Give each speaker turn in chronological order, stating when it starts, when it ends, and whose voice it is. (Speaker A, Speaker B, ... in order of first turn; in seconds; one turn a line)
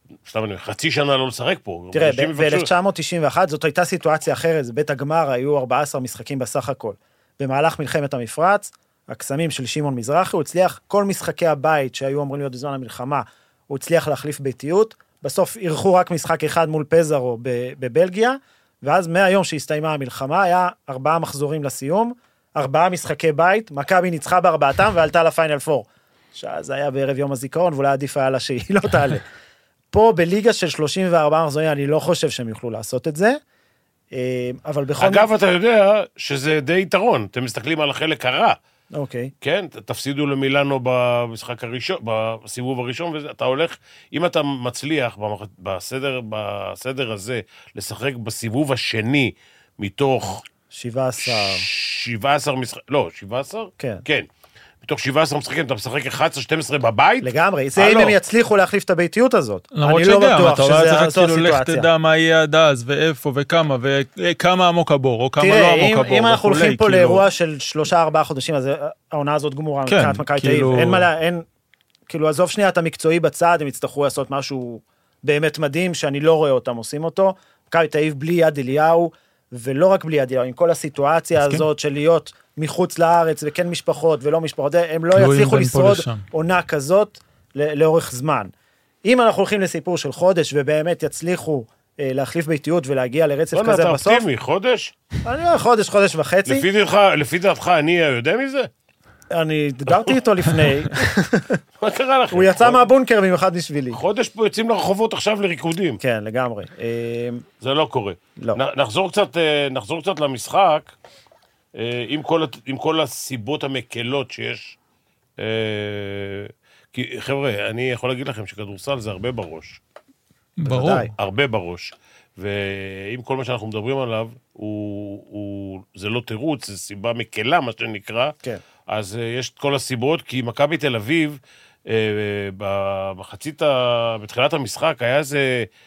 Speaker A: 0.2-2.7
Speaker B: 1.9-29.2
Speaker B: 29.9-33.4
Speaker B: 34.1-35.3
Speaker A: 35.0-38.6
Speaker B: 38.9-39.3
Speaker A: 39.4-50.5
Speaker B: 50.7-51.7
Speaker A: 51.2-54.3
Speaker B: 53.8-54.0
Speaker A: 54.8-58.2
Speaker B: 57.2-61.9
Speaker C: 59.7-67.2
Speaker B: 65.4-71.5
Speaker C: 69.9-71.1
Speaker B: 72.1-88.5
Speaker C: 81.4-81.6
Speaker C: 85.1-86.2
Speaker B: 89.0-94.2
Speaker A: 93.5-94.9
Speaker B: 95.2-96.7
Speaker A: 96.5-98.7
Speaker B: 99.3-101.6
Speaker A: 99.9-100.2
Speaker A: 101.8-102.9
Speaker B: 102.3-104.0
Speaker A: 103.9-106.0
Speaker B: 106.0-107.5
Speaker A: 107.6-110.9
Speaker A: 111.7-114.8
Speaker A: 115.4-119.8
Speaker C: 120.6-121.1
Speaker B: 120.6-121.1
Speaker A: 121.2-128.3
Speaker A: 128.9-135.7